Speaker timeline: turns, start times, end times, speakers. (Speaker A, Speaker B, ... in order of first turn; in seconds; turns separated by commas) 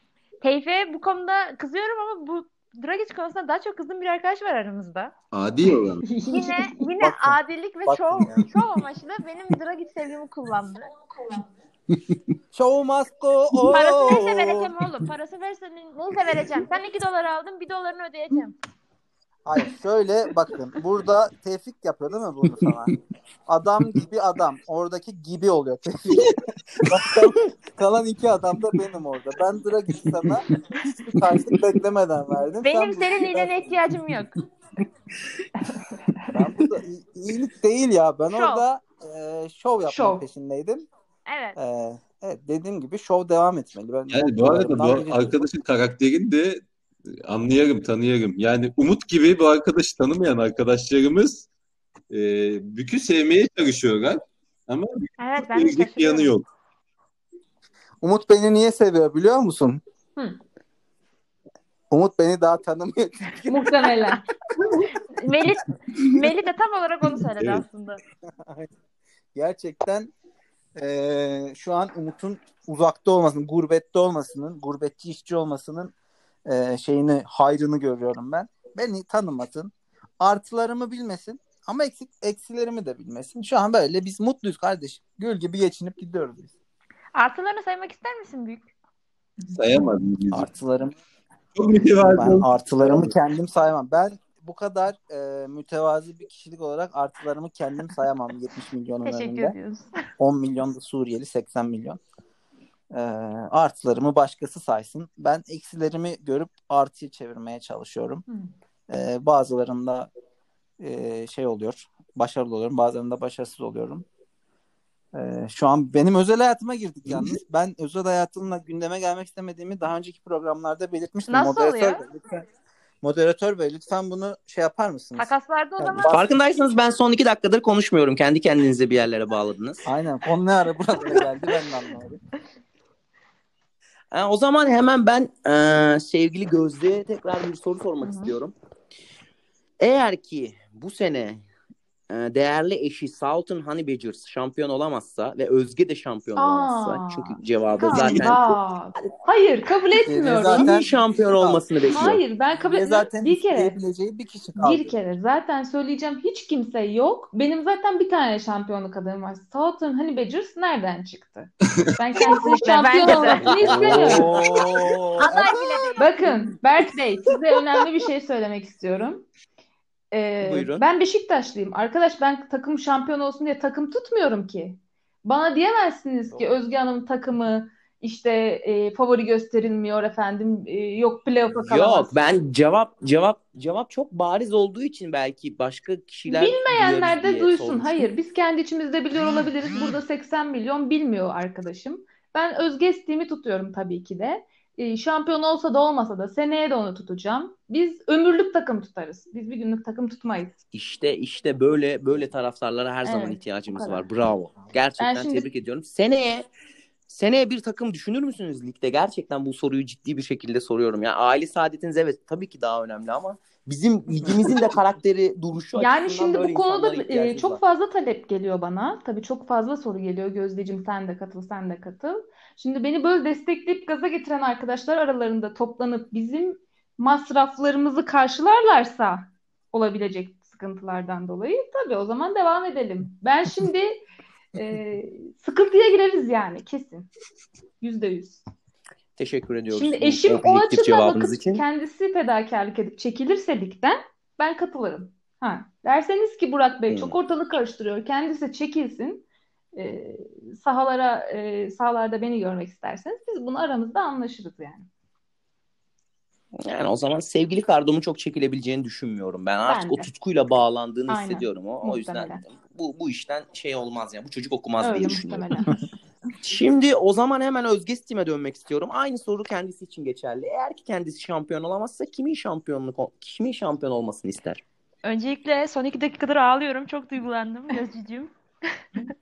Speaker A: 0.4-5.1, Speaker B: 5.3-6.2, Speaker C: 6.0-6.9, Speaker A: 6.3-10.9, Speaker D: 7.0-8.5, Speaker D: 12.5-14.7, Speaker A: 13.7-18.6, Speaker D: 19.5-33.7, Speaker A: 32.6-34.3, Speaker C: 35.7-36.2, Speaker D: 36.3-40.9, Speaker A: 38.3-38.6, Speaker C: 39.9-40.2, Speaker A: 41.3-41.6, Speaker D: 41.6-45.5, Speaker B: 44.1-46.6, Speaker B: 47.2-51.5, Speaker B: 52.1-56.5, Speaker A: 55.2-56.3, Speaker D: 58.0-59.8, Speaker D: 61.9-63.7, Speaker C: 63.5-64.2, Speaker A: 65.1-68.0, Speaker B: 67.4-67.7, Speaker D: 68.3-68.7, Speaker D: 69.3-70.1, Speaker D: 70.8-75.9, Speaker D: 76.5-86.5, Speaker A: 87.2-88.7, Speaker C: 89.4-89.8, Speaker B: 89.5-90.5, Speaker D: 90.3-91.0, Speaker B: 91.5-93.1, Speaker D: 92.0-99.5, Speaker A: 99.0-100.0, Speaker D: 100.2-102.0, Speaker D: 102.9-108.2, Speaker D: 108.9-110.1, Speaker D: 110.8-114.1, Speaker D: 115.1-122.5, Speaker A: 121.3-122.0, Speaker D: 123.0-126.2, Speaker A: 125.2-126.2, Speaker E: 126.1-129.8, Speaker D: 129.9-132.2, Speaker E: 134.1-138.6, Speaker C: 138.0-138.3, Speaker E: 139.8-141.4, Speaker E: 142.1-148.6, Speaker C: 146.4-150.7, Speaker D: 147.9-148.3, Speaker D: 150.1-154.9, Speaker E: 150.5-152.2, Speaker C: 151.9-153.8, Speaker C: 154.6-164.3, Speaker A: 162.4-163.6, Speaker E: 163.3-165.3, Speaker B: 163.7-164.0, Speaker D: 163.8-165.9, Speaker A: 165.2-166.2, Speaker C: 166.0-169.3, Speaker C: 170.1-182.1, Speaker E: 170.4-170.8, Speaker E: 181.6-188.1, Speaker C: 186.3-200.6, Speaker E: 200.7-206.5, Speaker C: 203.0-204.1, Speaker C: 205.0-205.5, Speaker E: 207.1-217.6, Speaker C: 215.8-234.0, Speaker C: 234.5-237.1, Speaker C: 237.8-238.4, Speaker E: 239.2-241.6, Speaker C: 239.7-254.9, Speaker E: 246.9-247.2, Speaker E: 256.6-265.5, Speaker C: 259.6-260.1, Speaker C: 261.1-262.4, Speaker C: 264.8-265.9, Speaker E: 266.4-274.6, Speaker A: 275.0-278.8